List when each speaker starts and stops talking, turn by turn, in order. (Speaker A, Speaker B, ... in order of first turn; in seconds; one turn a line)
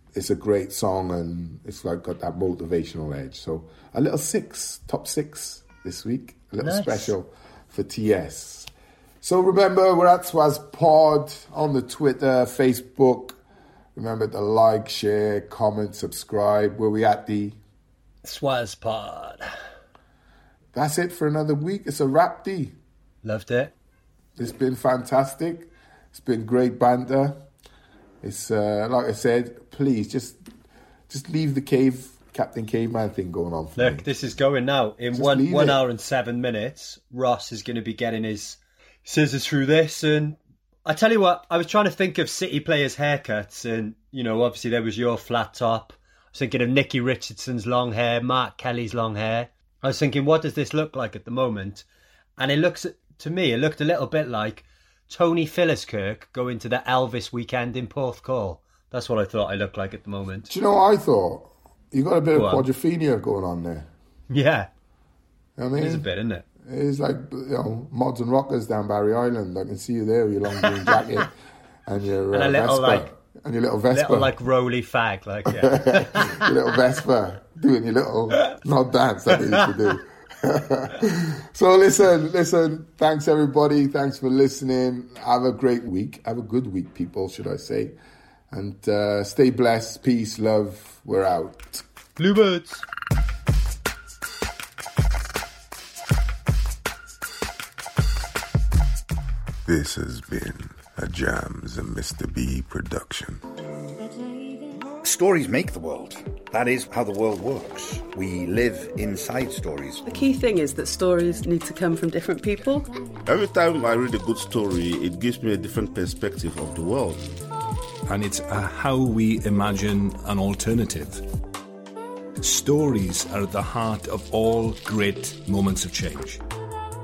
Speaker A: 0.1-8.7
Speaker B: 6.6-7.1
Speaker A: 9.2-13.4
Speaker A: 13.9-17.6
Speaker B: 18.2-19.5
Speaker A: 20.7-22.7
Speaker B: 23.2-23.7
Speaker A: 24.4-27.4
Speaker A: 28.2-30.4
Speaker A: 31.1-34.1
Speaker B: 33.8-51.9
Speaker A: 35.1-35.8
Speaker B: 52.4-60.5
Speaker A: 60.5-63.9
Speaker B: 62.3-62.6
Speaker B: 64.3-64.7
Speaker A: 65.6-66.0
Speaker B: 65.7-66.4
Speaker A: 66.6-71.3
Speaker B: 70.6-71.1
Speaker A: 71.8-74.3
Speaker B: 72.3-73.1
Speaker B: 73.9-76.7
Speaker A: 75.5-88.0
Speaker A: 88.5-91.8
Speaker B: 92.2-92.8
Speaker A: 99.7-103.4
Speaker C: 105.0-110.0
Speaker D: 110.0-112.9
Speaker E: 113.3-117.3
Speaker F: 118.1-121.2
Speaker F: 122.4-126.4